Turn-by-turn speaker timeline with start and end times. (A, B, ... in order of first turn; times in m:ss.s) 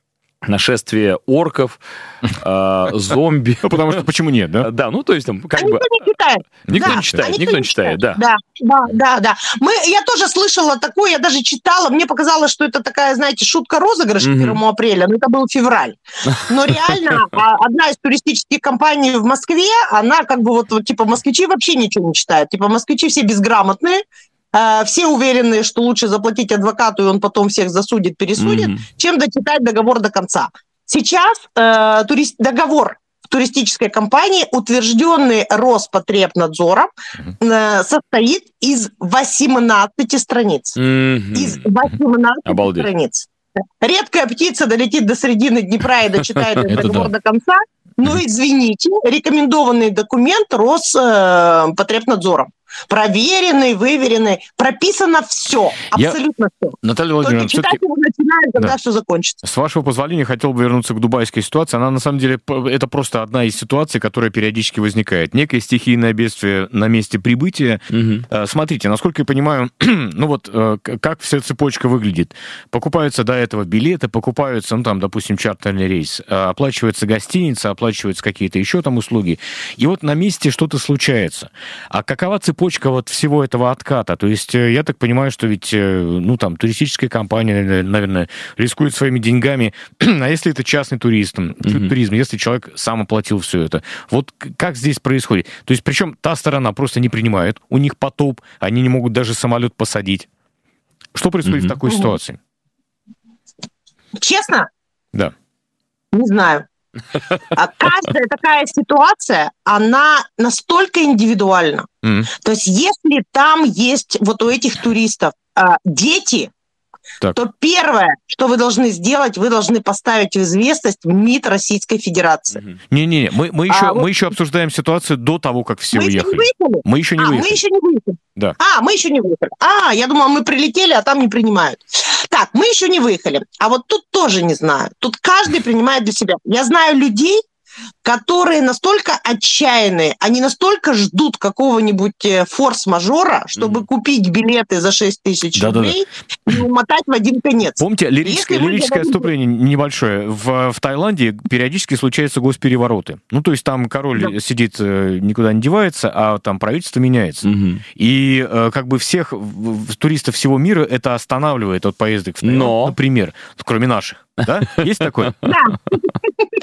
0:00.4-0:04.0 A
0:03.6-0:04.7 B
0:04.6-0:05.9 A
0:05.5-0:40.8 C
0:06.7-0:07.3 B
0:06.7-0:08.2 A
0:14.2-0:14.6 A
0:28.4-0:28.8 A
0:40.8-0:41.6 A
0:41.3-0:43.3 C
0:42.4-0:42.9 A
0:43.8-0:59.4 C
0:46.7-0:47.1 B
0:56.8-0:57.8 B
0:59.4-1:40.3 B
1:07.9-1:08.2 A
1:31.6-1:31.9 A
1:41.1-1:42.4 B
1:41.4-1:41.8 A
1:41.9-1:42.1 C
1:44.2-1:44.7 C
1:46.1-1:46.6 C
1:47.5-1:56.5 C
1:52.0-1:52.3 B
1:57.3-2:02.6 C
2:02.9-2:07.6 B
2:03.7-2:04.1 C
2:05.9-2:17.4 C
2:18.0-2:29.3 C
2:25.6-2:26.0 B
2:27.8-2:45.3 B
2:37.4-2:37.8 A
2:42.4-2:42.9 A
2:45.4-2:46.5 C